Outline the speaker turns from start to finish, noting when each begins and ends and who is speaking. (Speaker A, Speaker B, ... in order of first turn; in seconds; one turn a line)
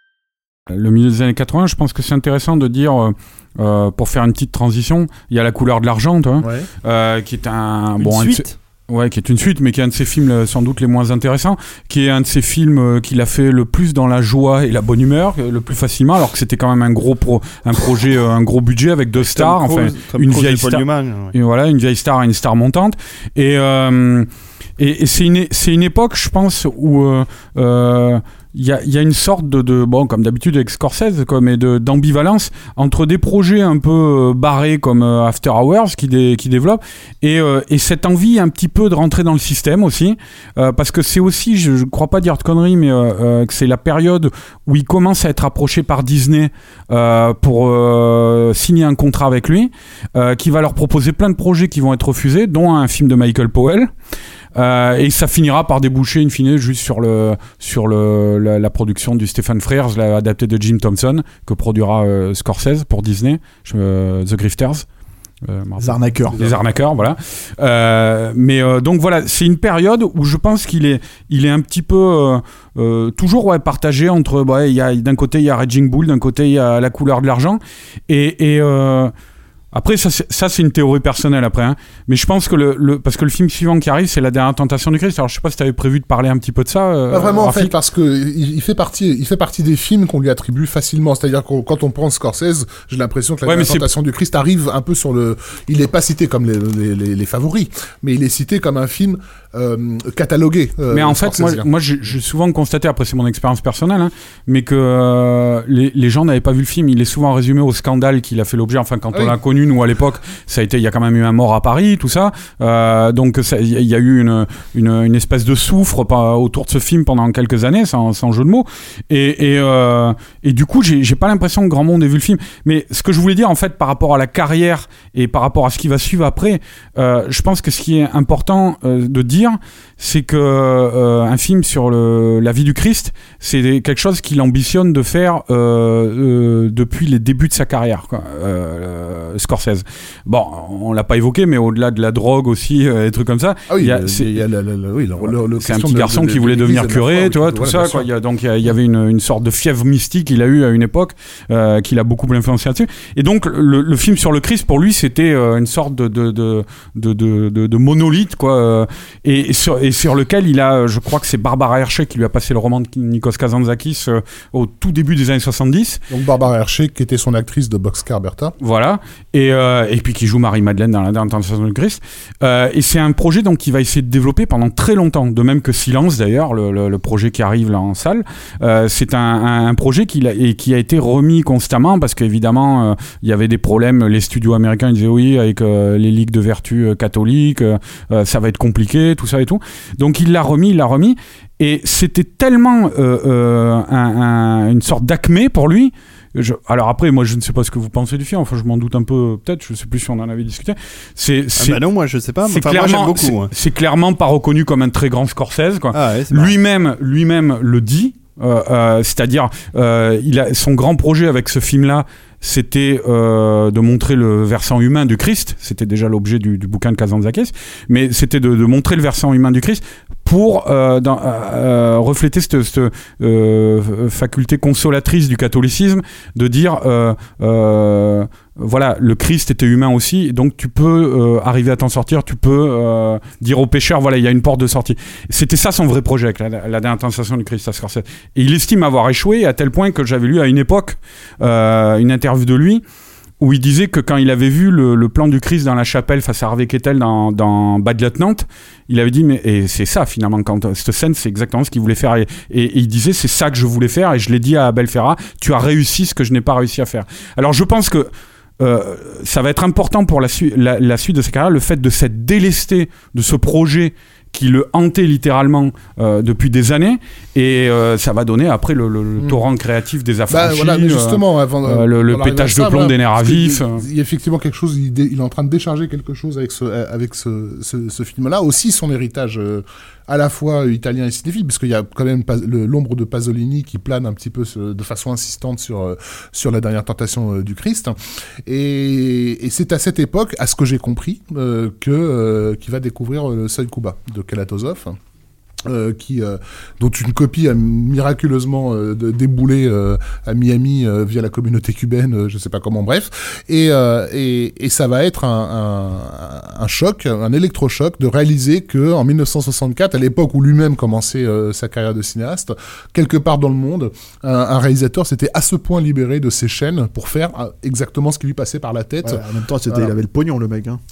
Speaker A: 0.7-53.9
Speaker B: 6.4-6.7
Speaker C: 8.0-8.5
Speaker C: 19.1-21.3
Speaker A: 54.5-64.9
Speaker A: 65.4-79.1
Speaker D: 65.8-66.4
Speaker A: 79.7-87.7
Speaker B: 87.1-101.7
Speaker A: 93.4-93.9
Speaker A: 100.9-144.4
Speaker B: 109.1-109.4
Speaker B: 143.7-148.1
Speaker A: 145.2-166.0
Speaker B: 166.1-168.5
Speaker A: 168.6-201.8
Speaker C: 201.6-203.5
Speaker A: 202.4-242.8
Speaker C: 205.9-206.5
Speaker A: 243.4-273.9
Speaker B: 269.2-269.4
Speaker B: 270.3-295.0
Speaker B: 295.6-319.9
Speaker D: 319.0-320.8